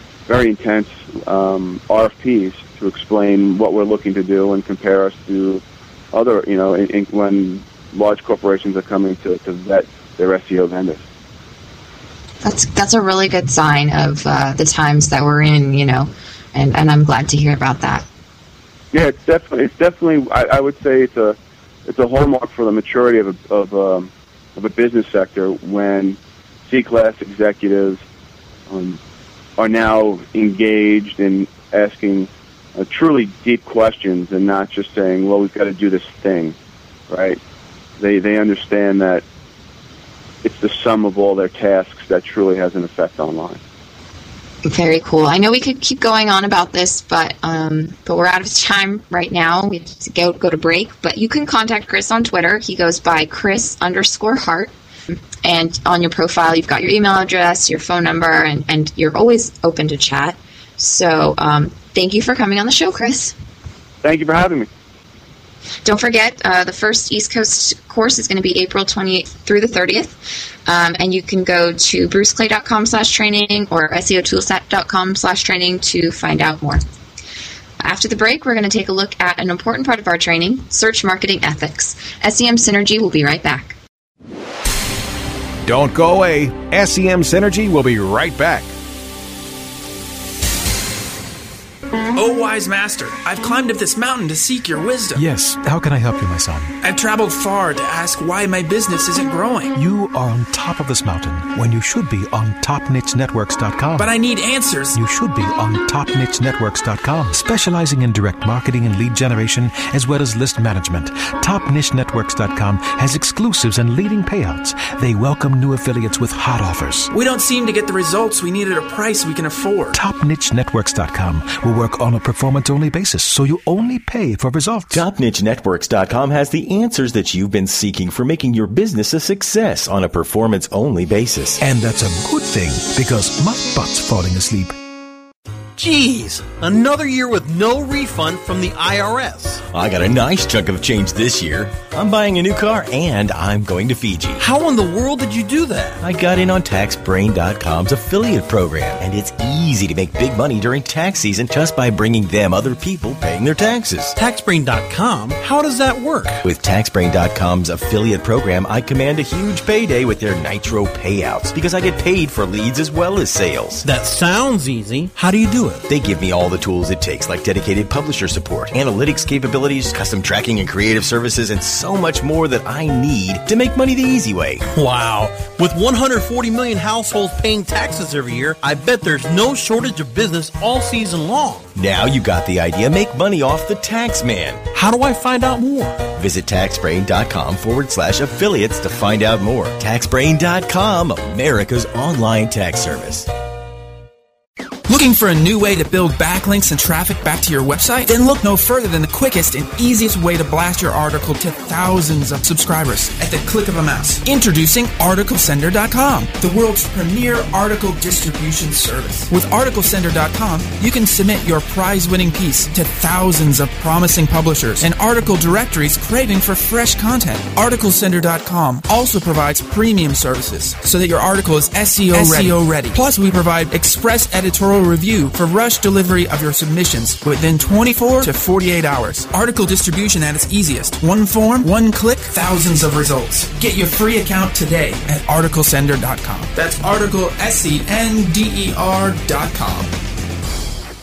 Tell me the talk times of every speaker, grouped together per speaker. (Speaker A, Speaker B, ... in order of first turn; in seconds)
Speaker A: 0.3-11.0, 18.9-28.0, 28.7-29.0, 29.6-36.6, 37.1-37.4, 38.0-39.2, 40.4-43.6, 64.0-64.7
Speaker B: 12.4-18.1, 44.6-54.7, 55.4-63.4, 65.8-76.8, 77.8-83.7
Speaker C: 85.6-88.7
Speaker D: 92.1-95.2, 96.8-99.7, 104.0-105.0, 117.1-120.0, 194.9-239.9
Speaker E: 95.2-96.7, 99.7-104.1, 104.9-117.1, 119.9-125.0, 131.6-134.7
Speaker F: 124.9-131.6, 139.7-144.4, 146.0-154.2, 156.4-163.8, 165.9-174.6, 181.7-184.6, 186.2-193.3
Speaker G: 135.8-139.6, 144.4-146.0, 154.2-156.4, 163.8-165.8, 174.7-181.7, 184.7-186.1